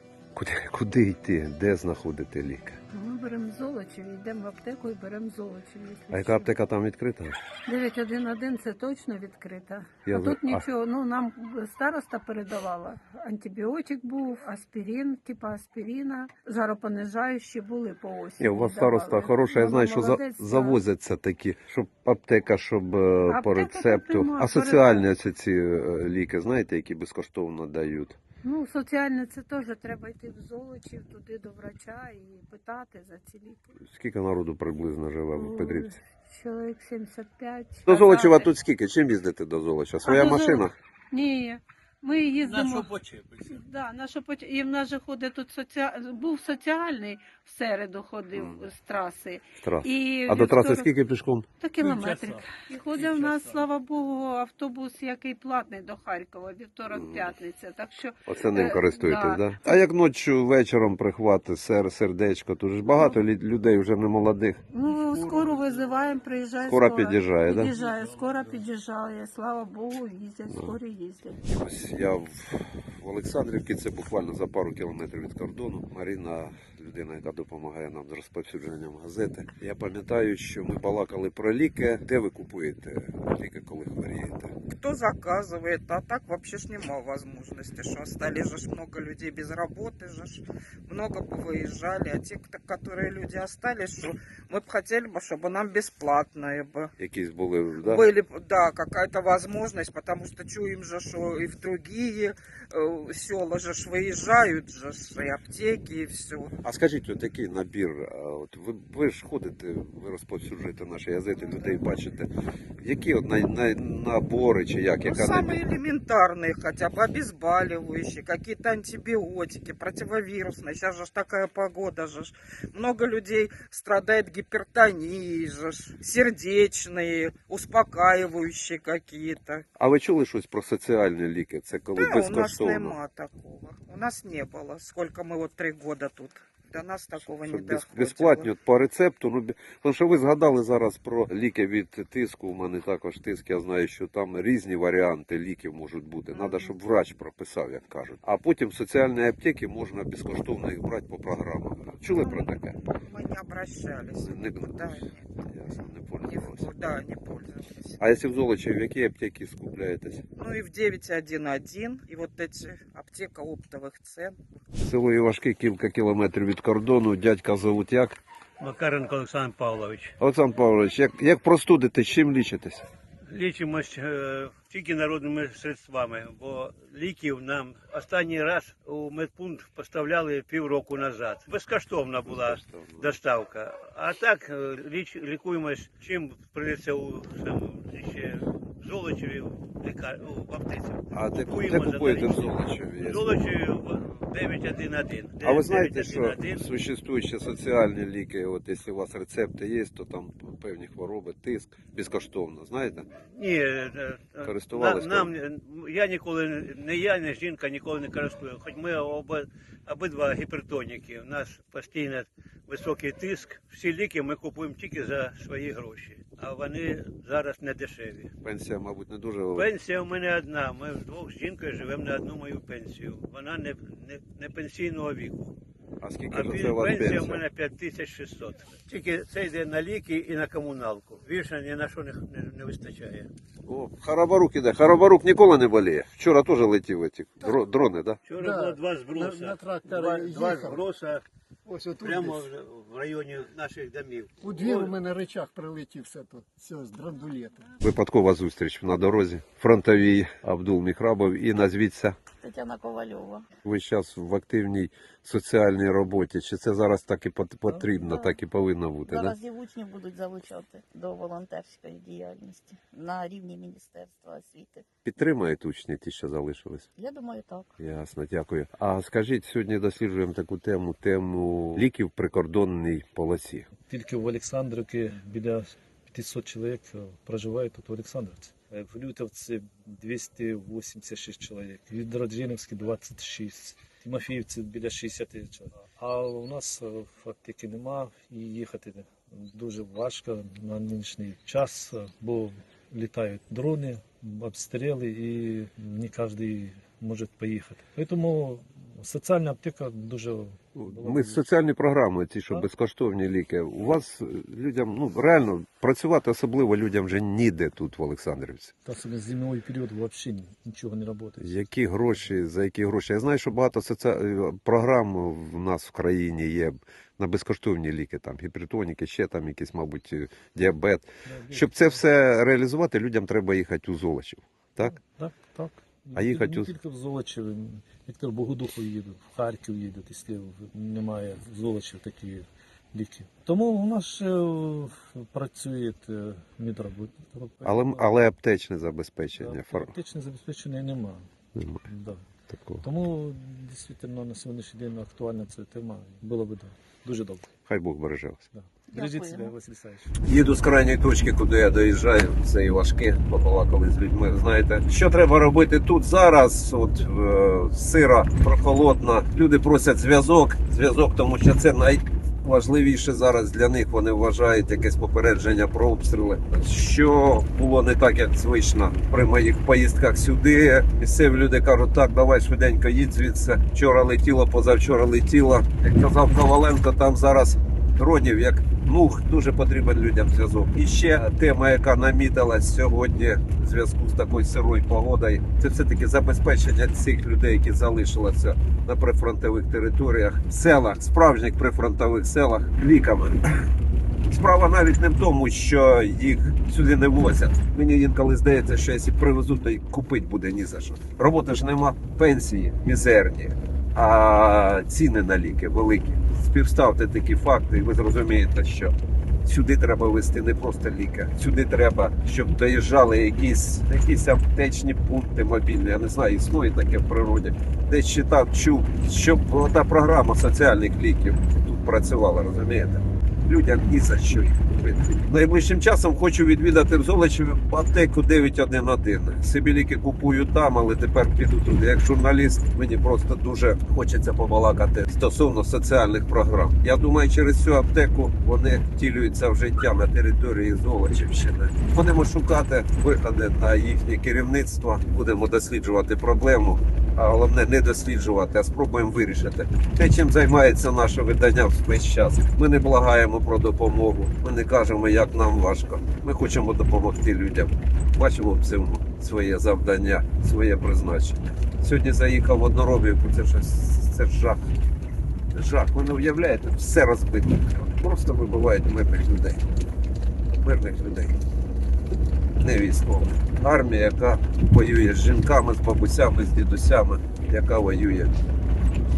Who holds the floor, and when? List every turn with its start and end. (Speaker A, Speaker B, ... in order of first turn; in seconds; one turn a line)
Speaker A: 0.3-2.8
Speaker B: 2.9-6.6
Speaker A: 6.1-7.4
Speaker B: 7.6-20.8
Speaker A: 10.1-10.7
Speaker A: 18.4-28.2
Speaker B: 23.2-25.1
Speaker B: 28.4-33.7
Speaker A: 33.8-36.0
Speaker B: 35.3-38.5
Speaker A: 37.9-40.7
Speaker B: 40.0-51.0
Speaker C: 42.4-43.6
Speaker A: 48.3-48.7
Speaker A: 49.6-51.5
Speaker B: 51.6-59.9
Speaker C: 51.8-53.3
Speaker A: 56.9-57.3
Speaker A: 58.3-64.6
Speaker B: 62.9-63.2
Speaker B: 64.7-71.4
Speaker A: 66.6-67.7
Speaker A: 70.5-70.8
Speaker A: 71.5-84.5
Speaker D: 84.7-96.9
Speaker A: 97.0-98.1
Speaker D: 97.8-106.5
Speaker A: 106.6-112.3
Speaker A: 112.8-115.6
Speaker D: 115.0-129.6
Speaker A: 129.8-133.0
Speaker D: 131.9-138.5
Speaker A: 137.2-152.8
Speaker D: 146.3-146.7
Speaker D: 152.1-155.3
Speaker A: 154.2-156.7
Speaker D: 156.2-158.0
Speaker A: 158.0-160.2
Speaker D: 160.3-164.4
Speaker A: 164.8-168.2
Speaker C: 168.6-170.1
Speaker A: 170.2-172.8
Speaker C: 173.3-196.7
Speaker A: 182.2-183.1
Speaker A: 191.1-193.4
Speaker A: 195.4-203.1
Speaker C: 203.3-218.3
Speaker A: 204.4-205.3
Speaker A: 218.4-219.7
Speaker C: 219.5-225.5
Speaker A: 226.0-227.4
Speaker C: 226.3-233.3
Speaker A: 233.7-238.2
Speaker C: 238.2-241.2
Speaker E: 238.4-240.8
Speaker E: 241.7-242.5
Speaker C: 242.0-245.0
Speaker E: 244.4-247.7
Speaker A: 247.8-252.2
Speaker F: 252.4-253.5
Speaker A: 253.6-259.4
Speaker G: 257.7-257.9
Speaker F: 258.1-258.3
Speaker F: 259.1-264.9
Speaker A: 265.0-266.9
Speaker F: 266.9-267.7
Speaker A: 267.8-273.7
Speaker G: 273.9-301.4
Speaker A: 300.7-308.7
Speaker G: 308.8-311.6
Speaker A: 311.4-324.9
Speaker G: 321.2-322.0
Speaker G: 324.8-338.1
Speaker A: 326.1-326.7
Speaker A: 337.6-339.9
Speaker G: 339.3-341.3
Speaker A: 341.5-341.9
Speaker G: 341.8-342.2
Speaker A: 342.5-342.8
Speaker G: 342.8-347.5
Speaker A: 347.6-348.4
Speaker G: 348.5-350.1
Speaker F: 348.9-349.3
Speaker A: 350.2-393.7
Speaker A: 394.3-408.9
Speaker A: 409.4-464.6
Speaker A: 465.5-469.6
Speaker A: 470.6-471.4
Speaker A: 472.6-478.3